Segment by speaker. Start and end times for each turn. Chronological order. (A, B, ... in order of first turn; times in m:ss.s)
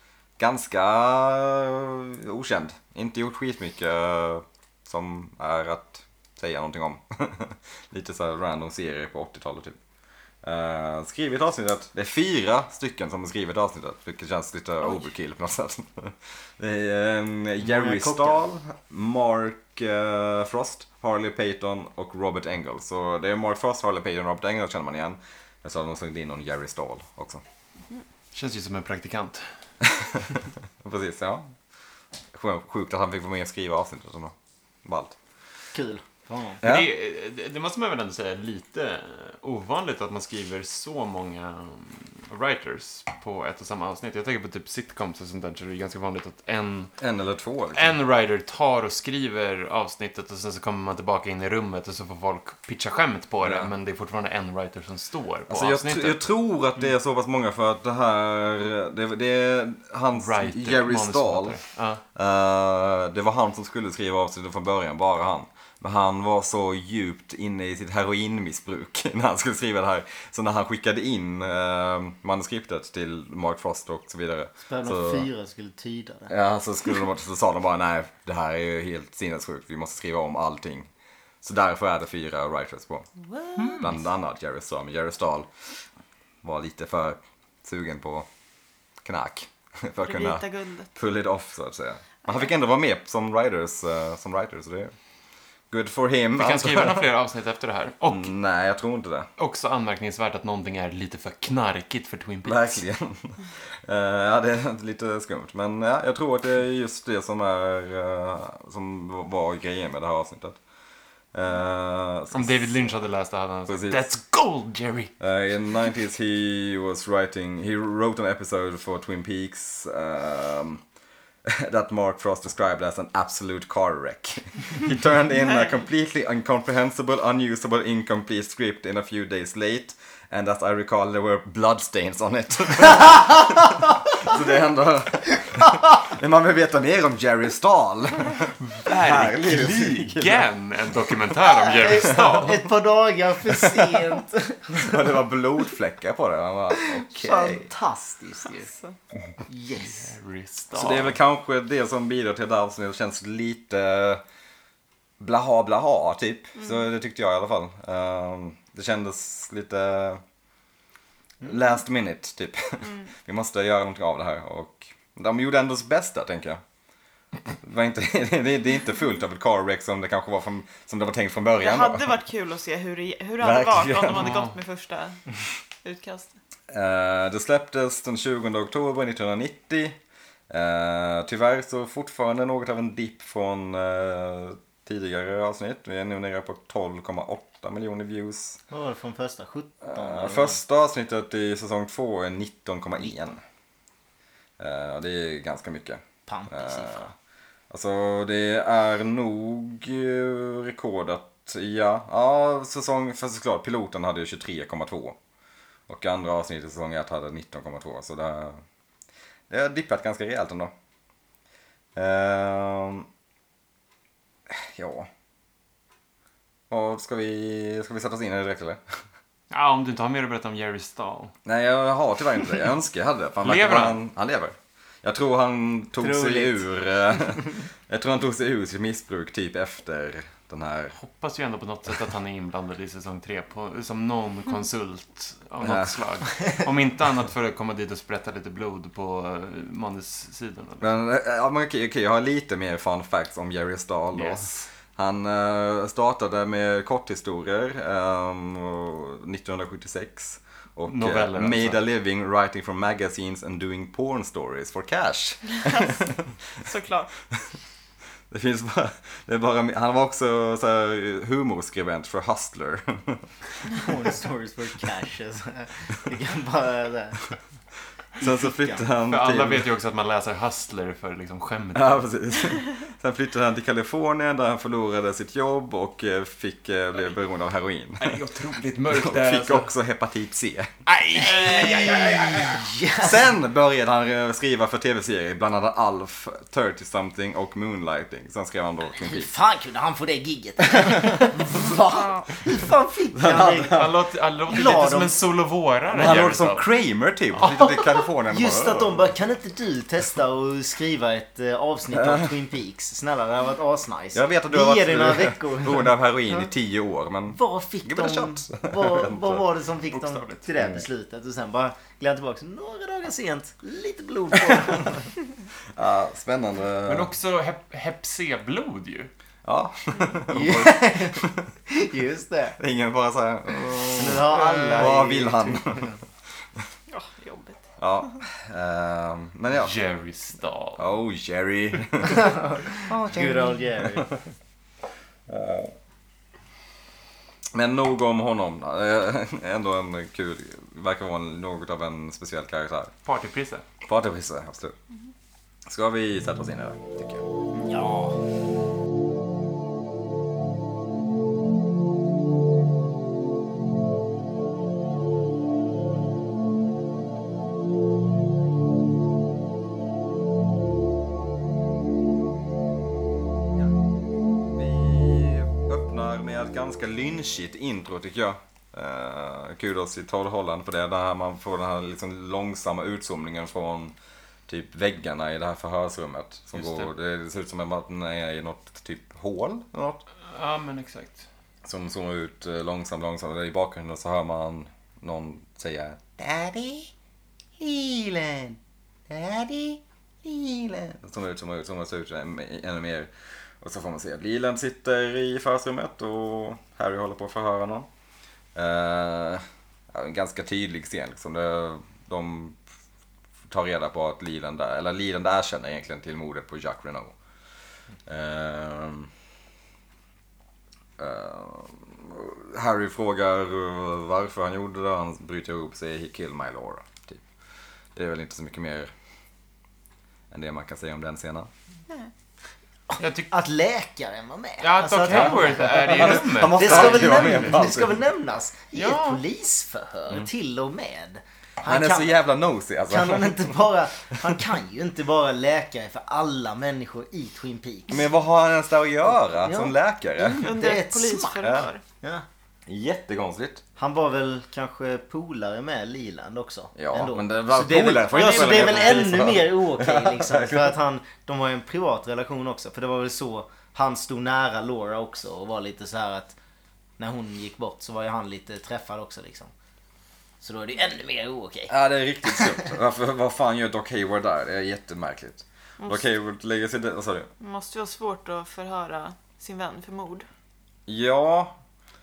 0:00.4-0:09.8 A
0:10.4-0:27.4 A
0:17.6-0:18.4 B
0:28.3-0:29.5 C
0:29.8-0:30.3 A
0:30.8-0:31.5 A
0:32.3-0:35.2 A
0:35.7-0:36.6 B
0:36.6-0:36.9 A
0:36.6-0:46.9 C
0:47.0-0:48.0 A
0:47.7-0:56.2 C
0:53.4-0:53.7 A
0:55.5-1:01.6 A
1:00.2-1:02.0 C
1:02.2-1:15.3 A
1:14.6-1:16.3 B
1:16.3-1:20.9 A
1:21.4-1:23.1 A
1:23.6-1:23.9 B
1:23.7-1:25.5 A
1:26.4-1:28.3 A
1:29.0-1:34.9 A
1:30.0-1:30.9 D
1:35.7-1:37.1 A
1:36.4-1:38.3 C
1:38.1-1:39.3 A
1:39.4-1:42.8 C
1:42.4-1:50.6 A
1:51.3-1:52.9 A
1:52.3-1:55.1 C
1:53.7-1:54.0 A
1:55.2-2:00.8 A
2:01.4-2:20.4 A
2:18.7-2:22.7 C
2:21.7-2:25.1 B
2:21.8-2:22.5 A
2:23.5-2:24.1 A
2:24.8-2:27.7 A
2:26.7-2:28.7 B
2:29.5-2:30.1 B
2:29.8-2:31.2 C
2:30.7-2:34.2 A
2:35.2-2:40.2 A
2:41.4-2:46.6 A
2:47.6-2:52.2 A
2:51.6-2:55.2 D
2:53.4-2:54.3 A
2:54.1-2:54.6 C
2:55.8-2:56.3 D
2:56.7-3:00.0 A
3:00.5-3:08.6 A
3:08.7-3:10.6 B
3:09.8-3:13.4 A
3:14.6-3:17.1 A
3:16.3-3:17.1 B
3:17.7-3:25.2 A
3:25.9-3:28.6 A
3:29.5-3:30.7 A
3:32.0-3:33.1 A
3:34.5-3:35.1 A
3:36.7-3:38.9 A
3:39.5-3:41.4 C
3:41.4-3:51.0 A
3:43.4-3:44.0 C
3:46.0-3:46.6 B
3:51.0-4:00.9 C
3:55.6-3:55.9 A
4:00.8-4:16.5 A
4:04.1-4:04.7 C
4:10.9-4:11.8 C
4:15.6-4:16.0 D
4:16.6-4:17.1 D
4:18.3-4:23.3 A
4:23.8-4:27.2 B
4:28.2-4:28.8 B
4:28.2-4:29.6 A
4:29.0-4:32.1 C
4:31.8-4:38.2 A
4:38.0-4:39.7 C
4:38.9-4:40.7 A
4:40.9-4:43.3 B
4:41.1-4:42.6 C
4:43.0-4:49.3 A
4:48.9-4:53.9 B
4:53.1-4:53.9 A
4:53.7-4:56.6 C
4:54.5-4:55.2 B
4:55.9-4:59.0 A
4:57.5-5:06.0 B
5:01.9-5:02.3 A
5:04.1-5:09.4 A
5:07.3-5:15.1 B
5:09.9-5:10.5 C
5:10.6-5:10.8 A
5:15.8-5:17.1 A
5:16.8-5:19.1 C
5:19.4-5:21.5 A
5:20.3-5:22.6 B
5:22.6-5:25.9 A
5:23.7-5:26.0 B
5:24.0-5:24.9 C
5:26.9-5:27.6 D
5:27.8-5:29.7 A
5:29.5-5:30.9 C
5:30.8-5:32.3 A
5:32.1-5:34.1 B
5:32.9-5:33.6 D
5:35.3-5:35.7 A
5:37.5-5:42.9 A
5:43.0-5:43.6 C
5:43.8-5:44.8 A
5:45.7-5:47.2 A
5:47.6-5:48.2 B
6:04.5-6:13.9 A
6:14.5-6:20.0 A
6:16.5-6:16.9 C
6:20.3-6:21.3 C
6:21.6-6:26.9 A
6:27.6-6:28.6 A
6:29.1-6:37.9 A
6:38.6-6:42.6 A
6:43.5-6:47.1 A
6:48.1-6:49.1 A
6:51.0-6:57.2 A
6:58.0-6:58.9 A
7:00.3-7:01.5 A
7:02.9-7:12.2 B
7:03.0-7:03.3 C
7:04.6-7:07.4 C
7:05.1-7:08.0 A
7:08.7-7:09.2 C
7:11.6-7:13.6 A
7:12.9-7:18.1 B
7:17.9-7:20.5 A
7:19.4-7:19.8 B
7:20.2-7:21.8 D
7:20.3-7:22.2 B
7:21.4-7:21.7 A
7:22.7-7:23.6 A
7:23.8-7:36.4 B
7:26.8-7:30.7 A
7:28.1-7:28.6 D
7:37.0-7:39.5 B
7:40.4-7:41.7 B
7:41.7-7:47.3 A
7:42.3-7:42.7 B
7:47.4-7:50.3 D
7:50.9-7:51.6 A